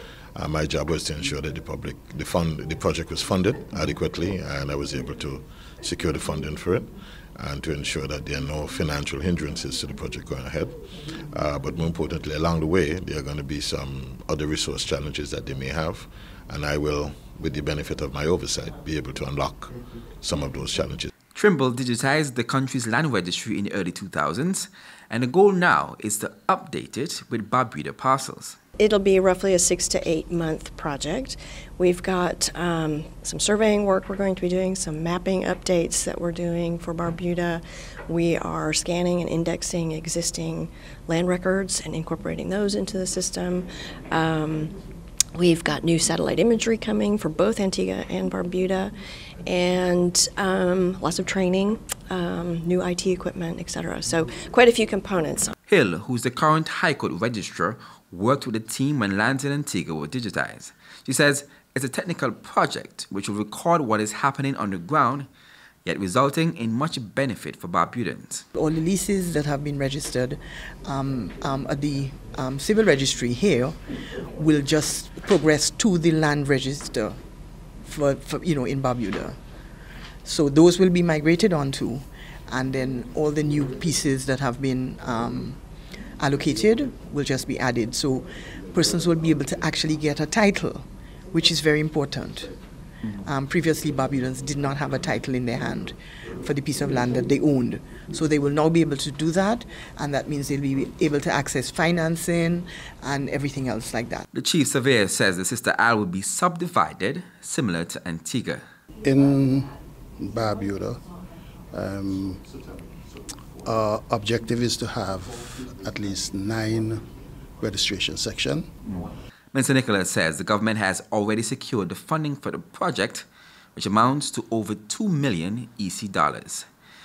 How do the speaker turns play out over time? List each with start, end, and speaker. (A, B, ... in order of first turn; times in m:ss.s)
0:00.4-0:21.1 A
0:21.3-0:28.6 B
0:28.8-0:44.7 C
0:45.4-0:48.9 C
0:49.4-0:55.5 C
0:55.7-1:05.3 B
1:05.8-1:08.5 B
1:08.6-1:13.8 D
1:14.3-1:17.2 D
1:17.8-1:19.4 D
1:20.2-1:25.6 D
1:26.2-1:32.6 D
1:33.2-1:44.3 D
1:44.3-1:48.6 B
1:49.0-1:51.0 E
1:51.7-1:52.4 E
1:53.6-1:57.0 E
1:57.6-1:58.7 E
1:59.5-2:06.7 B